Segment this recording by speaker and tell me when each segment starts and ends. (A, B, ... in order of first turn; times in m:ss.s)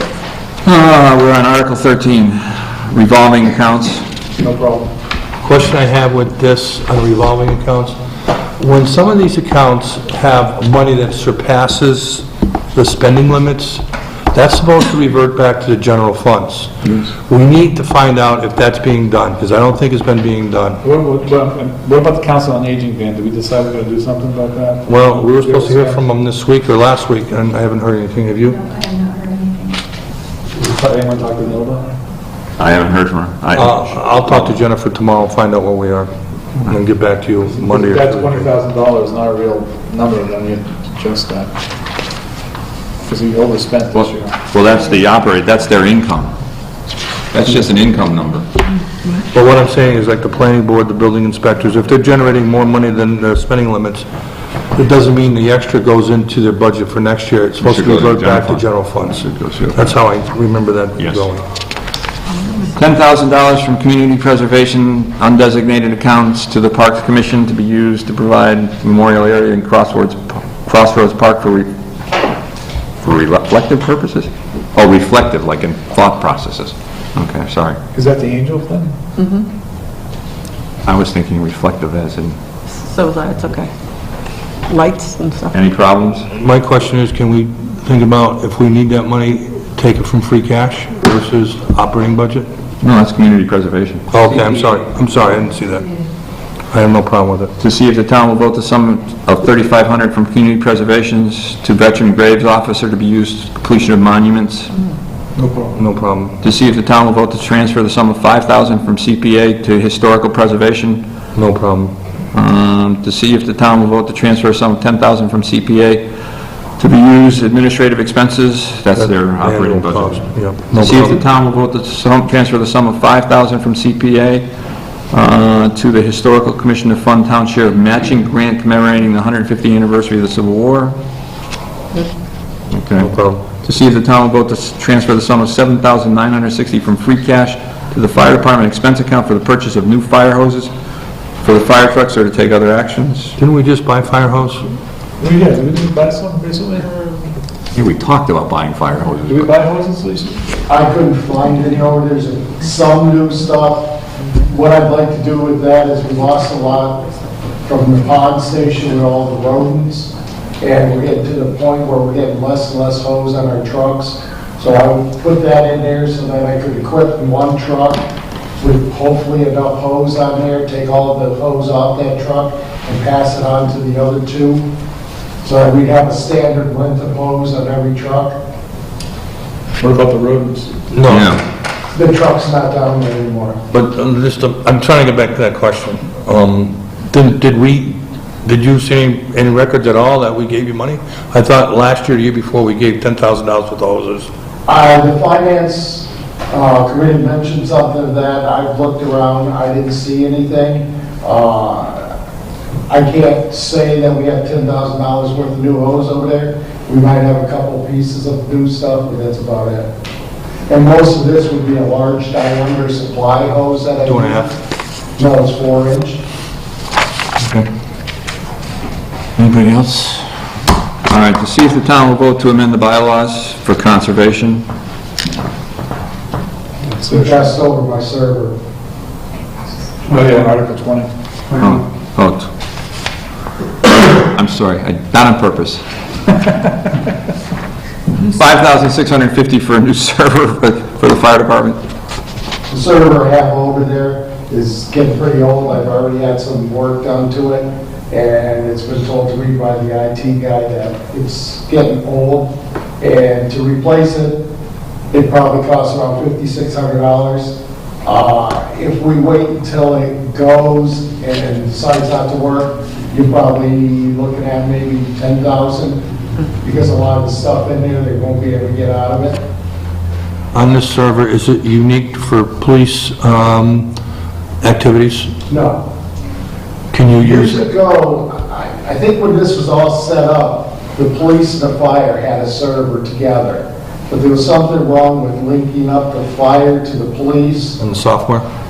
0:00.6-0:04.0 A
0:04.4-0:04.9 B
0:05.4-0:08.0 C
0:08.6-0:20.8 C
0:20.8-0:26.0 B
0:24.8-0:28.6 C
0:28.7-0:29.7 D
0:30.5-0:32.0 B
0:32.6-0:34.1 A
0:33.5-0:38.5 C
0:37.6-0:41.5 B
0:43.0-0:44.4 B
0:43.9-0:46.3 A
0:47.3-0:48.4 A
0:49.3-0:54.1 C
0:54.7-1:01.4 C
0:57.6-0:58.6 A
0:59.2-0:59.9 A
1:01.0-1:01.2 A
1:02.7-1:11.7 A
1:13.0-1:17.8 A
1:17.9-1:18.9 B
1:19.2-1:19.5 E
1:20.8-1:22.4 A
1:22.8-1:23.7 E
1:24.7-1:25.5 E
1:25.5-1:26.3 A
1:26.3-1:32.5 C
1:32.8-1:34.8 A
1:34.1-1:35.9 C
1:36.7-1:37.5 C
1:37.6-1:44.7 A
1:45.4-1:45.7 B
1:45.7-1:46.4 C
1:46.4-1:51.0 A
1:51.3-1:51.9 C
1:52.3-1:56.0 A
1:56.8-2:04.4 A
1:58.9-2:01.2 C
2:05.1-2:11.0 A
2:12.7-2:20.7 A
2:13.0-2:13.4 C
2:21.4-2:23.4 A
2:23.4-2:24.7 C
2:25.2-2:26.9 B
2:27.7-2:29.5 A
2:29.3-2:30.4 B
2:30.7-2:34.0 F
2:34.5-2:37.0 F
2:36.8-2:38.8 D
2:37.6-2:48.0 F
2:48.6-2:54.6 F
2:55.4-2:58.3 F
2:59.8-3:00.7 B
3:00.9-3:01.4 C
3:01.1-3:01.4 A
3:01.9-3:03.6 F
3:03.7-3:14.3 C
3:14.7-3:22.1 F
3:22.9-3:29.9 F
3:30.7-3:34.5 F
3:34.0-3:34.5 C
3:35.2-3:36.2 F
3:37.4-3:37.7 C
3:39.4-3:40.2 A
3:41.0-3:44.6 A
3:46.8-3:47.5 B
3:47.1-3:48.5 F
3:50.0-3:51.1 B
3:51.6-3:52.5 A
3:54.1-3:55.8 A
3:58.2-4:01.8 A
4:02.7-4:14.4 F
4:15.1-4:26.0 F
4:26.6-4:29.4 F
4:30.5-4:33.9 C
4:34.6-4:35.4 C
4:35.5-4:35.8 F
4:36.9-4:37.6 C
4:37.2-4:47.8 F
4:47.8-4:48.4 C